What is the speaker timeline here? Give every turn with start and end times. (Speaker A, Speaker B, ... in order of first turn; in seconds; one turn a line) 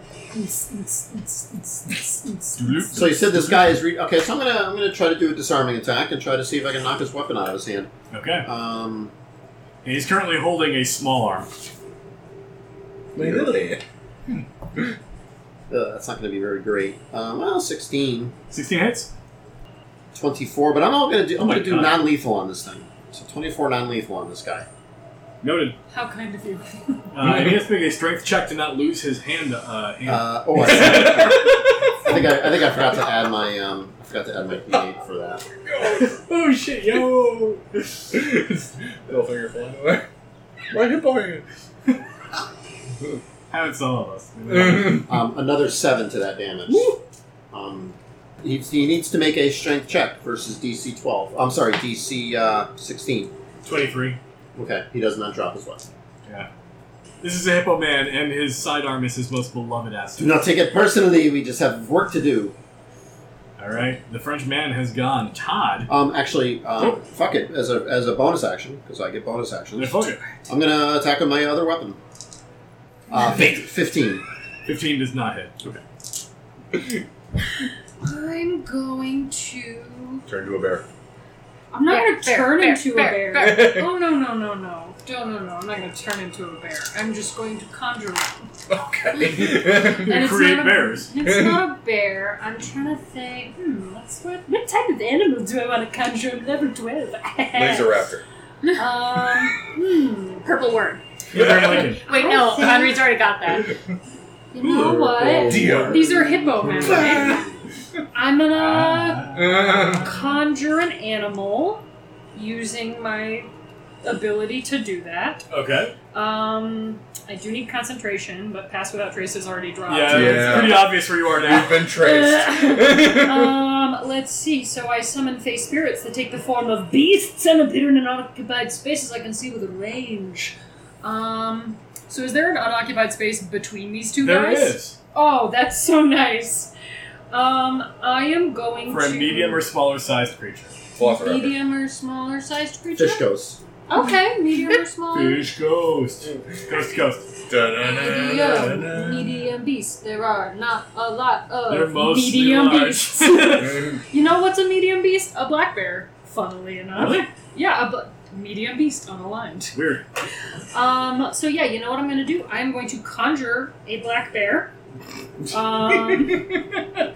Speaker A: 0.3-2.9
Speaker B: 2.6-3.8
Speaker C: 2.9-7.9
Speaker B: 8.1-8.5
Speaker C: 8.4-9.1
Speaker B: 9.8-11.5
Speaker D: 13.1-13.8
Speaker C: 15.7-18.3
Speaker B: 18.5-19.1
Speaker C: 20.1-24.7
Speaker B: 21.4-22.1
Speaker B: 25.4-25.8
Speaker A: 25.9-27.0
Speaker B: 27.1-32.2
Speaker D: 27.2-27.6
Speaker C: 30.1-35.4
Speaker D: 35.6-36.2
Speaker B: 35.9-38.1
Speaker D: 38.1-40.1
Speaker D: 40.7-41.4
Speaker B: 43.5-45.1
Speaker D: 44.5-45.1
Speaker C: 45.0-46.9
Speaker B: 46.7-47.0
Speaker C: 47.5-53.3
Speaker B: 53.6-54.2
Speaker C: 54.5-55.9
Speaker B: 57.2-60.4
Speaker C: 60.2-62.5
Speaker B: 63.6-65.9
Speaker C: 65.9-72.0
Speaker B: 69.8-70.2
Speaker C: 73.1-74.2
Speaker B: 74.6-75.5
Speaker A: 78.0-80.2
Speaker D: 80.2-80.8
Speaker A: 81.7-88.5
Speaker E: 81.9-83.7
Speaker D: 83.3-83.9
Speaker D: 88.7-90.1
Speaker A: 89.3-98.0
Speaker B: 89.8-91.1
Speaker D: 91.2-91.7
Speaker D: 97.5-98.2
Speaker A: 98.7-100.5
Speaker E: 100.4-101.0
Speaker B: 101.3-102.0
Speaker D: 101.3-101.9
Speaker A: 102.0-103.2
Speaker E: 102.1-103.7
Speaker A: 104.5-107.4
Speaker D: 104.6-107.4
Speaker C: 105.2-105.7
Speaker B: 105.4-106.0
Speaker A: 108.1-113.5
Speaker B: 108.5-109.7
Speaker D: 109.3-110.3
Speaker A: 114.0-115.4
Speaker B: 115.5-115.9
Speaker A: 116.1-120.9
Speaker B: 119.9-121.8
Speaker D: 120.0-123.6
Speaker A: 121.5-136.7
Speaker B: 134.2-135.0
Speaker A: 137.3-139.6
Speaker B: 138.9-140.7
Speaker D: 140.9-141.6
Speaker A: 141.0-143.3
Speaker C: 142.9-143.6
Speaker A: 143.9-145.5
Speaker B: 145.1-147.3
Speaker D: 147.5-149.4
Speaker A: 147.7-159.8
Speaker B: 148.4-148.9
Speaker B: 151.7-153.8
Speaker D: 153.6-154.0
Speaker B: 156.9-157.3
Speaker B: 159.7-160.0
Speaker A: 160.7-164.7
Speaker A: 165.5-166.5
Speaker D: 165.6-166.4